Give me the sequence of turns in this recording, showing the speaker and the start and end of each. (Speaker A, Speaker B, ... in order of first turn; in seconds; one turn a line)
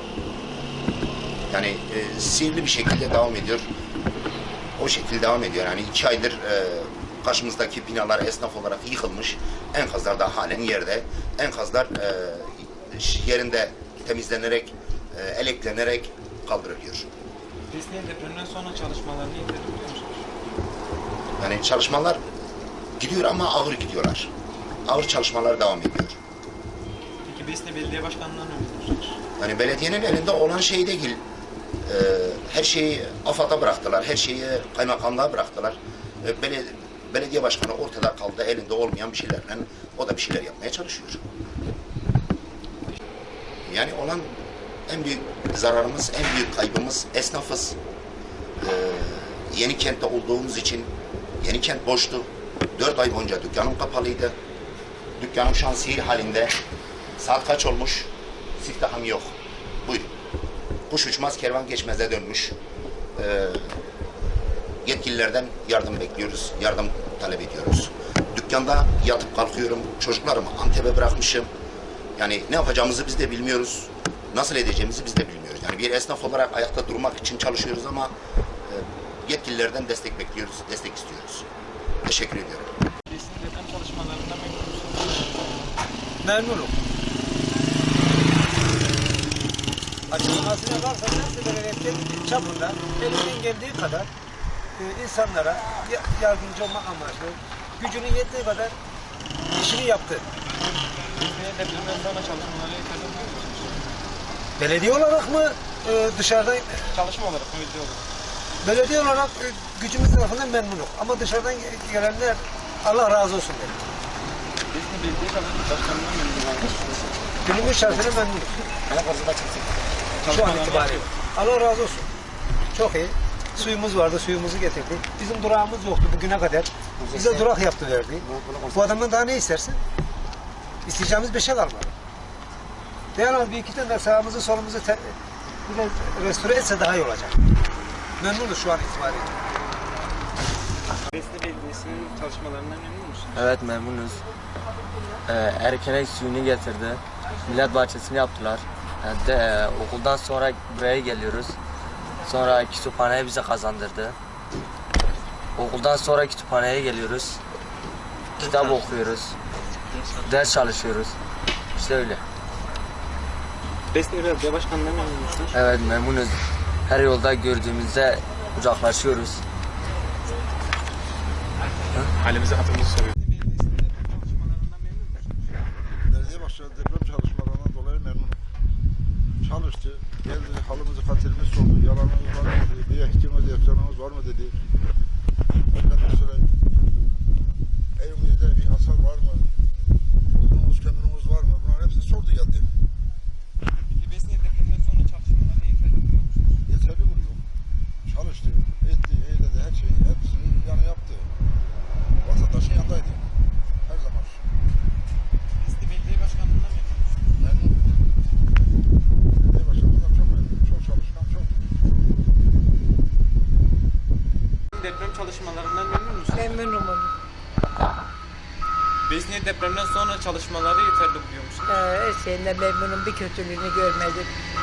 Speaker A: 1.5-3.7
Speaker A: 4.8-17.1
Speaker B: 17.7-20.3
Speaker A: 21.4-22.2
Speaker A: 23.0-24.3
Speaker A: 24.9-26.2
Speaker B: 27.2-29.2
Speaker A: 29.4-31.2
Speaker A: 31.9-41.2
Speaker A: 43.6-44.4
Speaker A: 44.9-47.8
Speaker A: 48.6-54.3
Speaker A: 55.2-56.5
Speaker A: 57.2-60.1
Speaker A: 60.9-62.5
Speaker A: 63.1-63.8
Speaker A: 64.8-71.5
Speaker A: 72.2-78.1
Speaker A: 78.7-81.5
Speaker A: 82.0-82.7
Speaker B: 83.1-85.3
Speaker C: 86.2-86.8
Speaker C: 90.1-94.1
Speaker C: 94.7-98.8
Speaker C: 99.6-100.2
Speaker B: 100.9-103.8
Speaker C: 104.6-106.9
Speaker B: 106.9-108.0
Speaker C: 108.6-113.8
Speaker B: 114.7-117.1
Speaker C: 117.4-118.7
Speaker B: 120.2-121.1
Speaker C: 120.3-122.1
Speaker C: 122.7-129.8
Speaker C: 130.8-131.9
Speaker C: 133.1-135.1
Speaker C: 135.7-137.4
Speaker C: 138.2-139.3
Speaker B: 141.0-143.5
Speaker D: 143.3-144.2
Speaker D: 145.2-151.6
Speaker D: 152.2-154.2
Speaker D: 155.6-157.4
Speaker D: 158.4-159.3
Speaker D: 160.2-161.1
Speaker D: 161.7-162.2
Speaker B: 163.9-165.6
Speaker D: 165.5-169.4
Speaker B: 173.1-175.6
Speaker E: 176.1-178.4
Speaker E: 179.4-184.6
Speaker E: 185.7-186.5
Speaker E: 188.0-189.5
Speaker E: 190.3-192.7
Speaker B: 193.8-196.6
Speaker E: 196.7-197.4
Speaker E: 198.1-201.3
Speaker E: 202.2-203.3
Speaker E: 203.8-204.4
Speaker B: 205.6-207.4
Speaker E: 207.4-207.8
Speaker E: 209.4-211.6
Speaker B: 214.7-216.6
Speaker F: 216.3-217.1
Speaker B: 219.0-221.8
Speaker F: 221.7-224.3